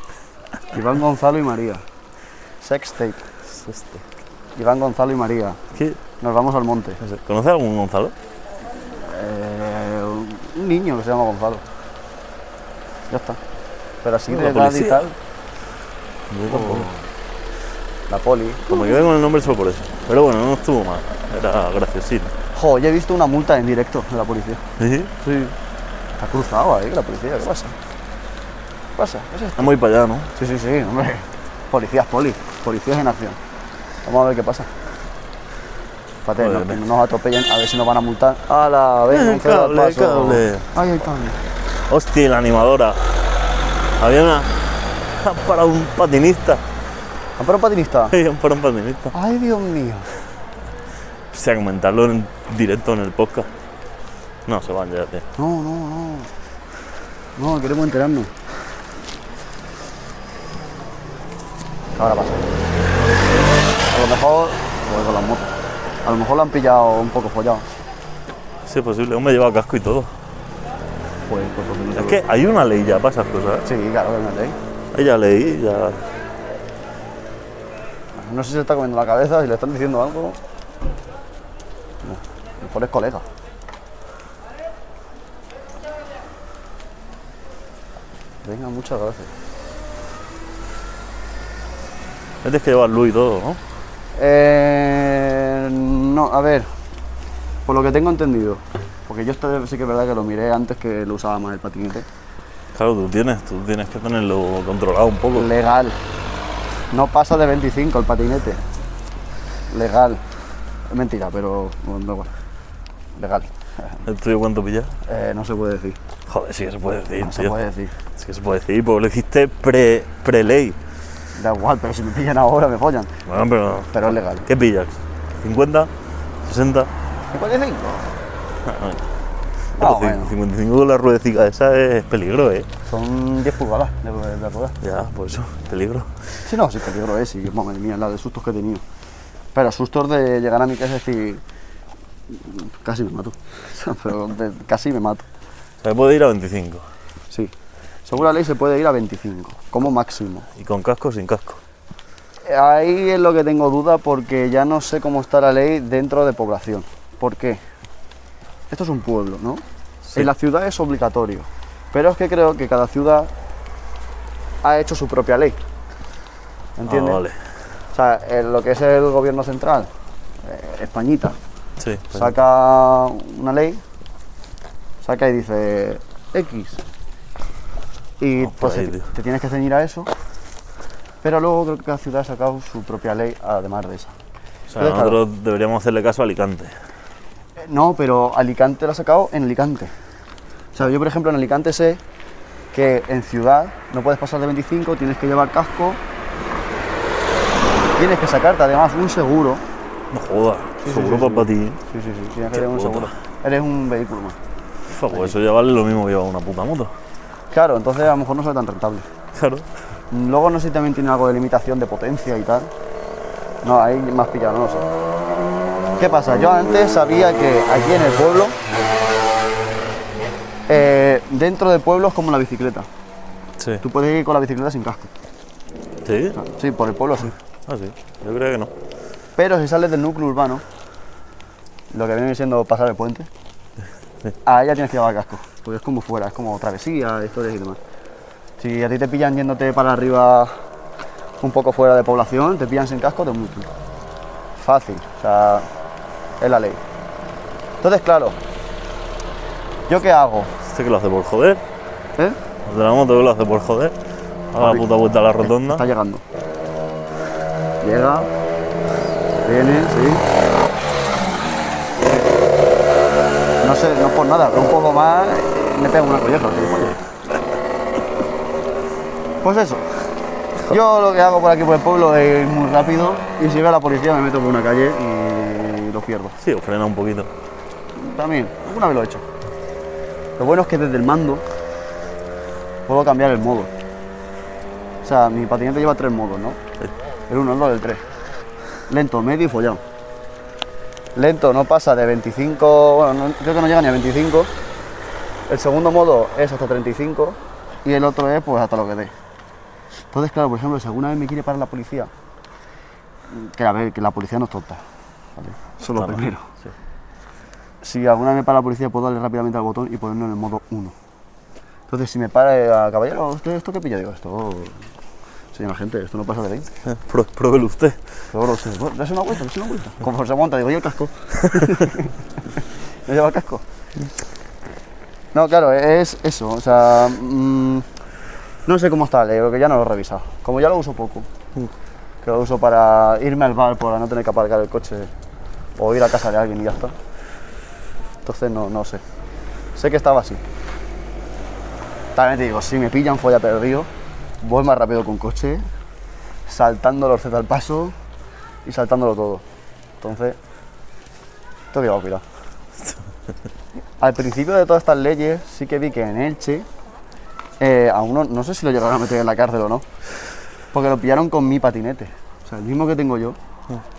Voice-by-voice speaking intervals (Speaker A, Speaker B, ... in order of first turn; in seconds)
Speaker A: 0.7-1.8, 2.6-3.2, 4.5-5.6, 6.2-7.0, 9.0-11.6, 13.1-13.4, 14.0-15.1, 16.5-17.0, 18.1-19.0, 22.5-24.6, 25.2-25.5, 26.2-27.8, 29.0-29.8, 30.3-33.4, 34.0-34.7, 36.2-41.4, 47.4-48.1, 49.1-50.1, 55.4-56.3, 57.4-58.3, 62.0-62.5, 63.9-67.7, 71.3-72.2, 73.6-74.6, 78.2-80.4, 82.0-83.2, 88.4-89.3, 94.2-96.7, 97.7-102.0, 105.3-106.0, 106.9-108.6, 109.7-110.2, 110.9-112.3, 113.2-114.0, 115.0-116.0, 117.1-117.9, 121.3-123.1, 123.9-124.5, 127.3-128.1, 129.8-130.3, 132.9-134.8, 136.4-138.8, 139.5-141.4, 142.3-145.2, 148.1-150.5, 152.4-157.6, 158.7-163.3, 164.6-165.6, 166.8-167.2, 167.9-169.9, 170.4-171.4, 172.1-173.8, 175.0-176.8, 178.2-180.1, 181.2-184.1, 184.8-185.2, 187.6-189.9, 190.7-192.0, 192.7-196.0, 198.0-199.6, 200.8-204.4, 207.5-209.1, 210.1-212.7, 213.6-214.9, 216.0-218.6, 220.7-222.9, 223.8-225.1, 226.3-227.3, 229.4-230.6, 231.9-233.3, 234.4-237.8, 238.6-240.5, 241.4-243.7, 244.6-245.7, 246.4-246.8, 247.8-248.4, 249.9-250.5, 254.6-254.8, 255.4-256.2, 257.8-258.3, 259.4-260.2, 263.6-267.0, 269.4-269.8, 270.6-276.4, 277.9-279.2, 280.4-281.4, 282.9-283.7, 285.0-286.6, 287.3-288.0, 288.9-289.8, 291.1-294.5, 295.5-299.1, 300.1-302.1, 303.3-304.8, 305.4-306.5, 307.8-310.9, 311.9-314.8, 315.5-316.7, 318.3-323.6, 325.3-327.9, 328.6-331.3, 332.2-335.1, 335.8-336.9, 338.2-339.0, 339.7-340.4, 342.1-343.9, 344.4-345.6, 346.5-347.9, 348.6-349.4, 350.0-350.4, 351.7-352.2, 354.0-356.6, 357.6-359.8, 360.7-363.4
Speaker B: 3.5-4.1, 5.7-6.0, 7.0-8.1, 14.3-15.1, 16.3-16.9, 18.7-22.3, 24.8-25.1, 29.6-30.3, 36.4-36.8, 39.1-40.7, 41.9-43.1, 44.0-44.5, 45.2-46.6, 48.1-49.1, 51.3-53.5, 54.5-55.2, 68.6-70.1, 71.9-73.7, 74.9-76.0, 92.4-93.6, 102.7-105.5, 114.0-114.9, 116.3-117.5, 118.1-120.8, 123.2-125.9, 126.4-126.9, 128.6-129.1, 129.8-132.7, 134.8-136.2, 145.8-146.8, 150.6-151.6, 166.9-167.4, 171.8-172.3, 178.4-179.1, 184.7-186.7, 200.1-201.8, 202.5-203.1, 204.9-206.9, 209.3-209.7, 223.6-223.8, 226.0-226.4, 227.7-228.7, 250.6-251.6, 252.6-253.9, 254.5-255.8, 276.4-277.3, 305.9-306.7, 316.8-318.0